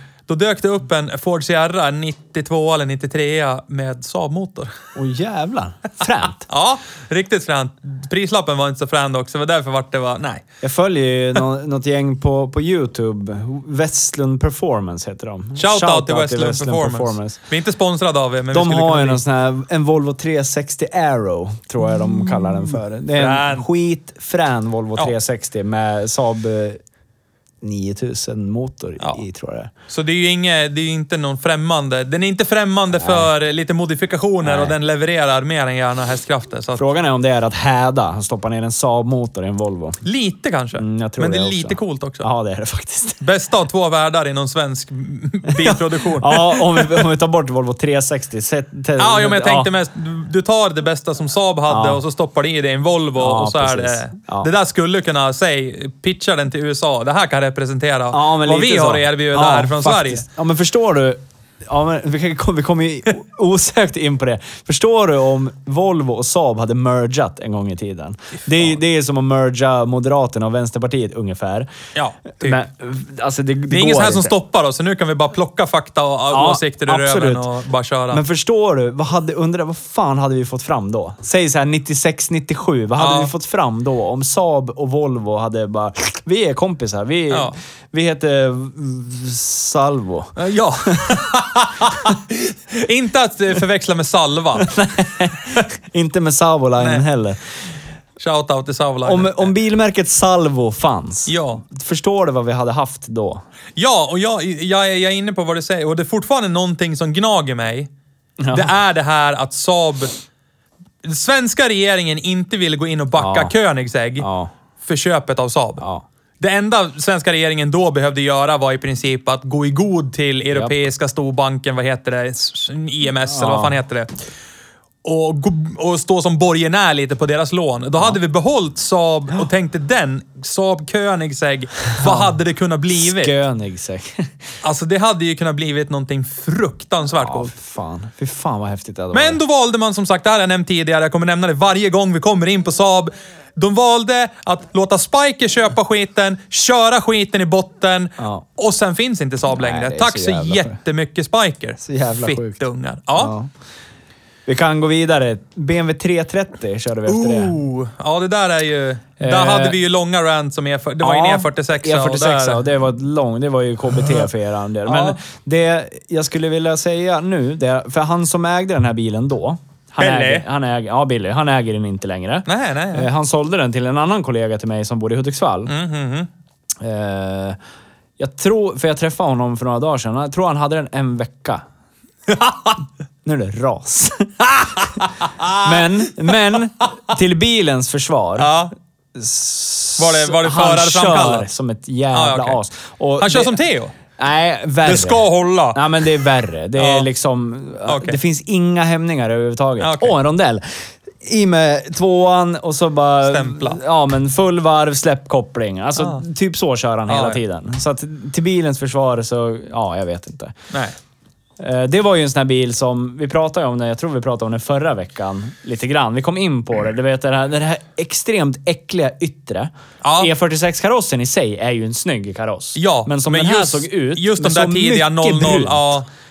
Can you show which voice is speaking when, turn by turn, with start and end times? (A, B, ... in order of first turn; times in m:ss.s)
0:00.3-0:04.7 A
0:05.0-0:06.5 B
0:06.5-0:10.4 A
0:10.6-0:17.4 B
0:15.6-0:19.2 A
0:18.5-0:26.8 B
0:22.2-0:23.6 A
0:27.6-0:29.7 B
0:29.9-0:36.8 A
0:32.9-0:33.3 B
0:34.4-0:34.7 B
0:36.8-0:40.0 B
0:40.0-0:42.3 A
0:40.8-0:43.2 B
0:43.2-0:47.0 A
0:45.5-0:49.7 B
0:49.0-1:00.2 A
0:51.7-0:52.0 B
0:53.2-0:54.5 B
0:58.1-1:11.7 B
1:11.9-1:12.6 A
1:12.4-1:14.3 B
1:13.7-1:18.2 A
1:16.3-1:17.5 B
1:18.1-1:31.1 B
1:23.0-1:23.3 A
1:27.3-1:27.5 A
1:30.4-1:34.7 A
1:34.6-1:37.4 B
1:36.8-1:37.0 A
1:38.2-1:39.5 A
1:39.0-1:43.4 B
1:41.3-1:41.6 A
1:43.8-1:47.9 A
1:48.4-1:48.7 B
1:48.5-1:50.1 A
1:51.0-1:54.3 A
1:53.2-1:53.5 B
1:54.2-1:54.5 B
1:54.8-1:55.8 A
1:56.4-2:04.1 A
2:03.3-2:03.8 B
2:05.0-2:13.3 A
2:12.0-2:12.3 B
2:12.9-2:14.3 B
2:14.6-2:17.5 A
2:17.1-2:19.4 B
2:19.1-2:33.3 A
2:28.2-2:28.4 B
2:29.5-2:30.8 B
2:31.8-2:32.6 B
2:33.2-2:33.5 B
2:34.4-2:37.5 B
2:37.1-2:42.6 A
2:39.2-2:39.8 B
2:41.0-2:55.7 B
2:44.8-2:45.2 A
2:50.0-2:50.4 A
2:52.5-2:53.1 A
2:55.7-2:56.3 A
2:56.8-2:57.6 B
2:58.2-3:01.6 B
3:02.3-3:02.8 A
3:03.2-3:05.0 B
3:04.5-3:06.3 A
3:05.6-3:08.5 B
3:08.4-3:08.7 A
3:09.1-3:13.6 B
3:10.0-3:11.5 A
3:12.1-3:12.6 A
3:13.2-3:13.9 A
3:14.2-3:30.6 B
3:14.8-3:16.1 A
3:16.8-3:17.0 A
3:17.8-3:18.2 A
3:19.8-3:20.1 A
3:23.2-3:23.8 A
3:26.0-3:26.2 A
3:27.1-3:27.4 A
3:30.7-3:31.0 A
3:31.6-3:45.9 B
3:40.0-3:40.3 A
3:42.8-3:46.1 A